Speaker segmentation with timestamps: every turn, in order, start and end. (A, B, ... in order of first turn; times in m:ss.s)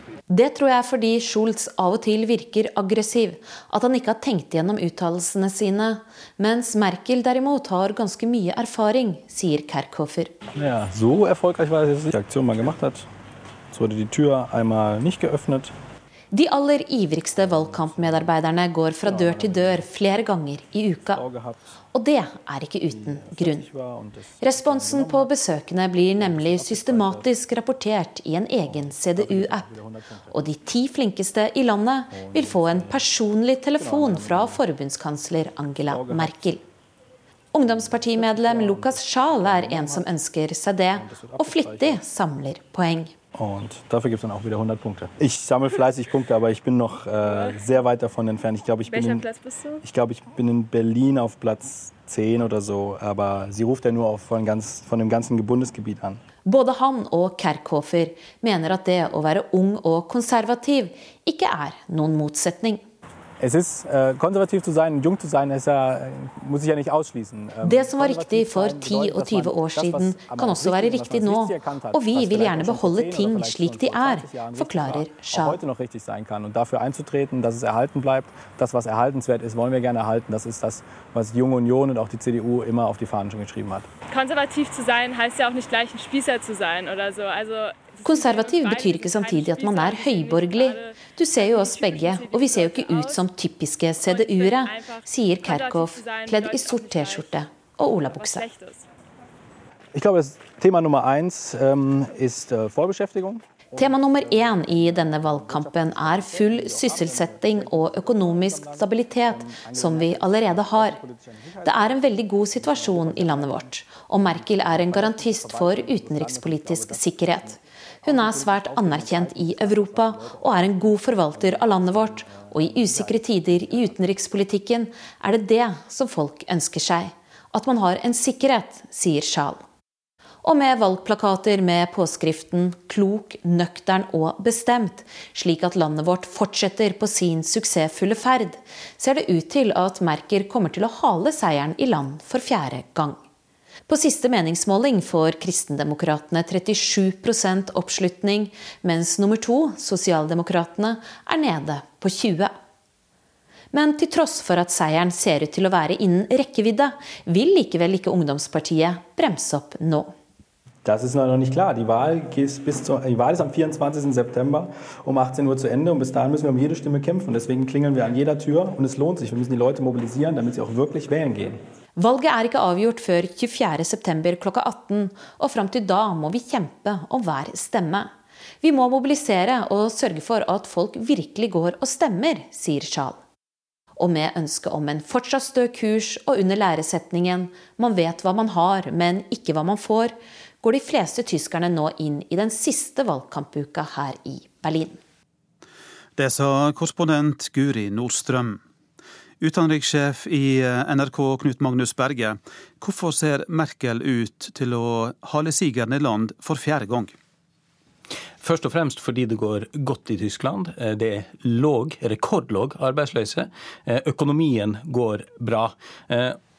0:00.3-0:10.3 A
0:10.6-0:13.1 B
0:13.7-0:15.7 B
0:16.3-0:21.2 A
0:17.4-0:18.3 B
0:19.0-0:19.9 B
0:21.1-0:21.7 B
0:21.9-0:23.7 A
0:22.9-0:25.3 B
0:24.4-0:29.7 A
0:26.2-0:27.3 B
0:28.6-0:30.4 B
0:30.3-0:36.6 A
0:32.1-0:33.1 B
0:33.8-0:34.6 B
0:35.9-0:36.5 B
0:37.5-0:43.1 A
0:37.6-0:40.1 B
0:40.9-0:42.0 B
0:43.3-0:49.3 B
0:47.2-0:47.6 C
0:48.9-0:49.8 C
0:49.8-0:56.2 B
0:56.4-1:02.8 A
1:03.4-1:23.9 B
1:07.6-1:15.6 A
1:24.1-1:33.2 C
1:28.0-1:38.4 A
1:34.0-1:37.3 C
1:38.1-1:38.8 C
1:39.9-2:04.1 B
1:43.8-1:51.0 A
1:51.6-2:09.6 A
2:10.4-2:23.2 A
2:23.9-2:32.5 A
2:33.7-2:40.1 A
2:40.8-2:51.6 B
2:52.0-3:03.2 A
3:04.0-3:15.0 A
3:16.2-3:18.6 D
3:19.4-3:27.1 D
3:28.4-3:36.4 E